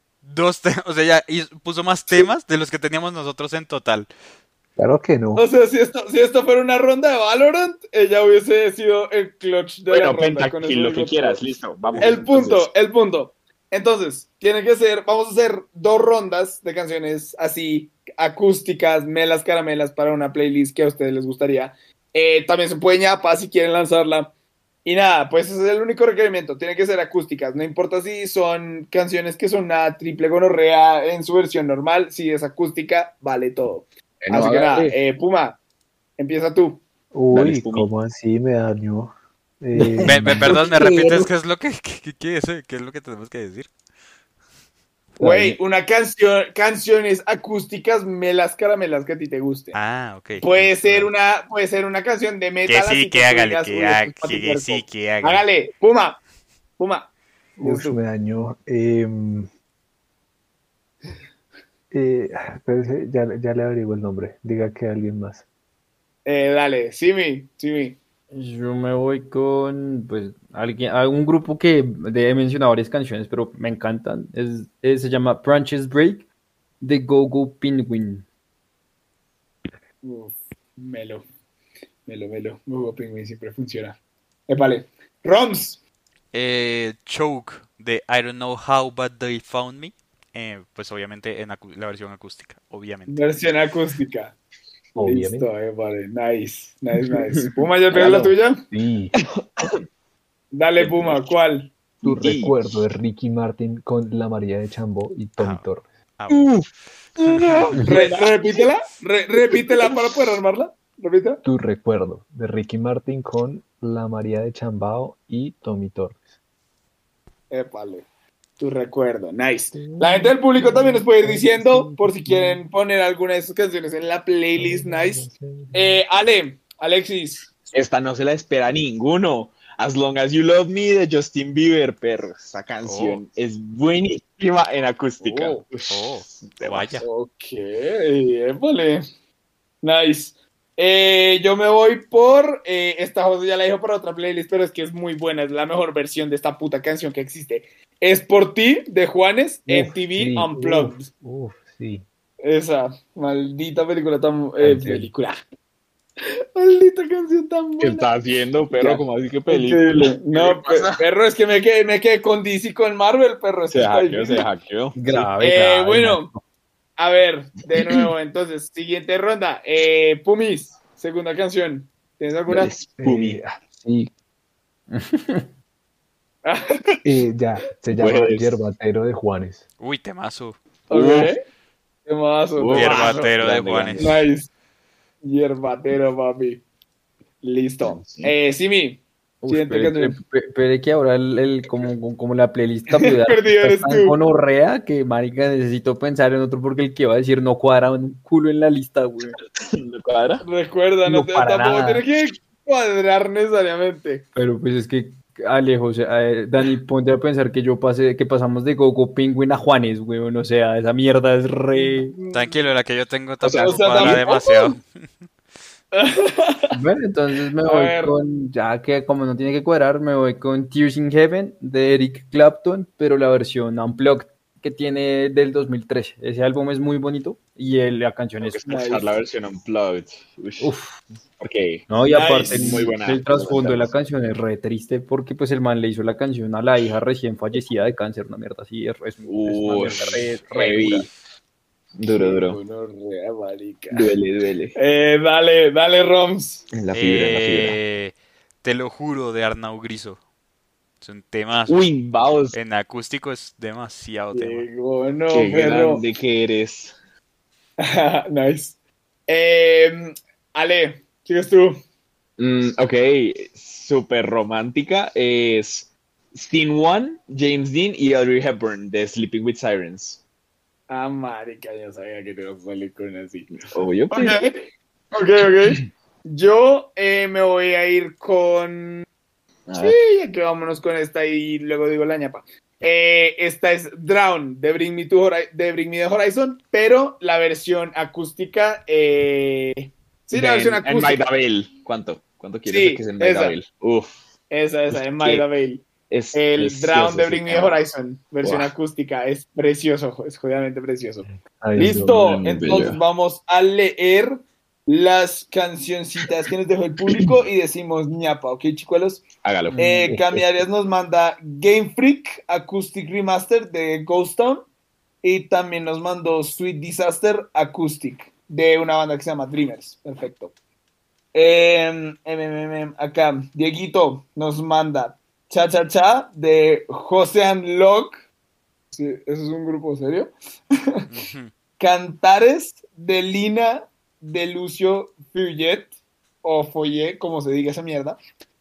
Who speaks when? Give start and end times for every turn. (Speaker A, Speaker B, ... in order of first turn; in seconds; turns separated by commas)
Speaker A: 0.2-4.1, Speaker B: 4.8-5.5, Speaker C: 5.3-11.4, Speaker D: 9.9-12.7, Speaker C: 12.0-24.3, Speaker C: 24.9-35.6, Speaker D: 34.2-35.0, Speaker C: 36.2-36.8, Speaker B: 37.1-40.5, Speaker D: 37.3-37.9, Speaker E: 39.8-40.2, Speaker A: 40.1-43.7, Speaker D: 40.5-41.3, Speaker B: 45.2-45.6, Speaker C: 45.2-49.8, Speaker A: 49.7-51.1, Speaker C: 50.4-56.2, Speaker A: 52.7-55.4, Speaker C: 56.8-58.0, Speaker B: 57.6-59.5, Speaker B: 61.9-65.4, Speaker C: 66.2-68.0, Speaker E: 68.3-76.2, Speaker E: 76.8-78.2, Speaker C: 80.0-81.2, Speaker C: 82.1-84.0, Speaker C: 84.5-85.8, Speaker A: 86.3-93.2, Speaker C: 93.1-94.3, Speaker B: 95.0-95.5, Speaker C: 95.0-98.6, Speaker D: 97.1-98.2, Speaker B: 97.9-99.1, Speaker D: 99.2-99.8, Speaker C: 100.5-101.7, Speaker D: 100.8-101.3, Speaker D: 102.0-102.7, Speaker B: 102.0-105.8, Speaker A: 105.4-105.7, Speaker A: 106.2-106.5, Speaker D: 106.3-108.6, Speaker A: 107.2-107.8, Speaker C: 107.8-111.4, Speaker D: 109.6-110.2, Speaker B: 111.5-116.2, Speaker C: 117.5-118.1, Speaker C: 118.6-127.6, Speaker B: 119.7-122.6, Speaker B: 124.6-126.0, Speaker D: 127.7-137.0, Speaker A: 132.8-133.2, Speaker C: 135.2-135.7, Speaker A: 135.9-137.1, Speaker C: 137.0-139.0, Speaker C: 139.8-151.1, Speaker B: 149.7-152.1, Speaker C: 152.4-155.4, Speaker B: 154.6-155.1, Speaker C: 156.6-158.1, Speaker D: 157.8-161.1, Speaker C: 158.7-164.5, Speaker D: 163.7-165.3, Speaker E: 164.9-166.4, Speaker C: 165.4-166.3, Speaker C: 167.0-172.7, Speaker D: 167.8-168.1, Speaker D: 172.5-173.4, Speaker B: 173.0-174.1, Speaker E: 174.9-175.5, Speaker C: 176.4-177.0, Speaker B: 177.0-179.6, Speaker D: 178.0-178.5, Speaker A: 179.8-180.6, Speaker D: 180.9-181.3, Speaker C: 180.9-181.4, Speaker C: 182.1-183.3, Speaker D: 182.6-184.2, Speaker A: 182.7-184.2, Speaker C: 184.0-184.5, Speaker C: 185.2-186.6, Speaker C: 187.4-190.2, Speaker D: 187.8-188.3, Speaker E: 189.4-199.4, Speaker C: 192.9-194.2, Speaker D: 199.4-200.4, Speaker C: 200.4-204.2, Speaker E: 201.1-202.0, Speaker E: 204.3-212.2, Speaker C: 211.8-212.6, Speaker A: 212.3-214.8, Speaker D: 213.4-214.2, Speaker C: 213.6-214.8, Speaker C: 215.9-216.8, Speaker E: 216.7-228.7, Speaker C: 217.7-218.1, Speaker D: 228.4-230.7, Speaker C: 228.7-229.1, Speaker E: 230.6-231.0, Speaker D: 231.4-233.9, Speaker E: 231.9-241.1, Speaker C: 232.1-232.9, Speaker D: 239.2-241.1, Speaker D: 242.0-242.6, Speaker C: 242.1-244.1, Speaker D: 243.9-244.8, Speaker C: 244.8-246.7, Speaker D: 246.7-247.8, Speaker A: 246.9-250.2, Speaker A: 251.0-251.9, Speaker D: 251.7-252.6, Speaker A: 252.5-254.7, Speaker C: 254.3-256.0, Speaker D: 255.3-256.9, Speaker C: 257.8-258.8, Speaker C: 259.3-261.8, Speaker D: 262.4-270.2, Speaker C: 270.9-274.5, Speaker D: 273.7-274.5, Speaker C: 275.1-279.1, Speaker D: 279.7-280.0, Speaker C: 279.8-291.2, Speaker D: 290.3-294.2, Speaker C: 292.7-293.6, Speaker C: 294.5-314.7, Speaker D: 294.9-295.4, Speaker D: 296.1-297.8, Speaker D: 298.4-298.7, Speaker B: 301.6-302.2, Speaker D: 302.1-303.0, Speaker D: 309.4-309.9, Speaker E: 309.8-310.1, Speaker B: 310.1-310.7, Speaker C: 315.2-320.5, Speaker C: 321.3-328.2, Speaker C: 328.9-330.3, Speaker A: 331.1-331.5, Speaker C: 331.8-335.9, Speaker C: 336.4-338.2